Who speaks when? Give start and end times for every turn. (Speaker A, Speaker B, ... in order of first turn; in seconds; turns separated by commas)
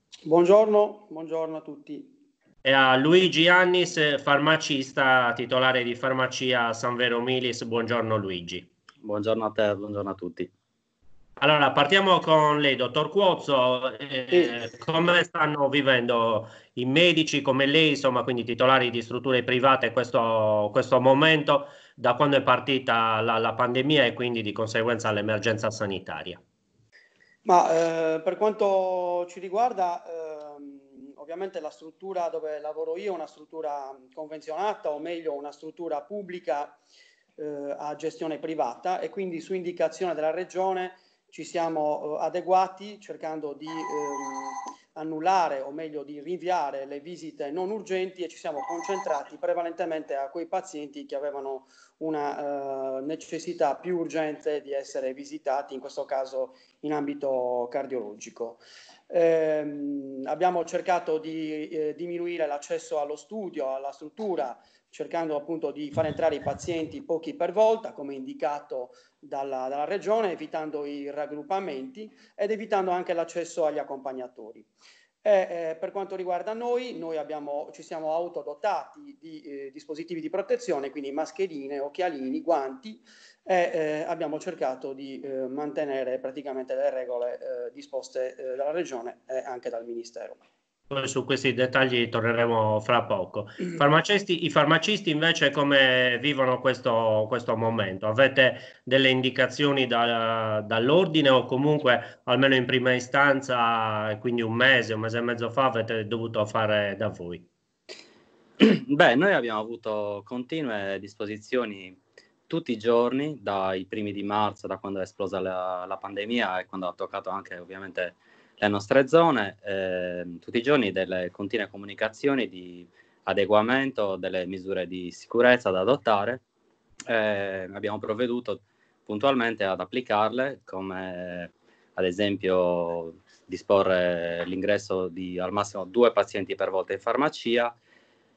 Speaker A: 0.2-2.1, Speaker B: 2.6-8.7, Speaker C: 9.0-10.5, Speaker B: 11.4-26.4, Speaker A: 27.4-36.8, Speaker A: 37.4-74.6, Speaker A: 75.2-90.4, Speaker B: 90.9-107.5, Speaker C: 108.6-126.4, Speaker C: 127.1-137.7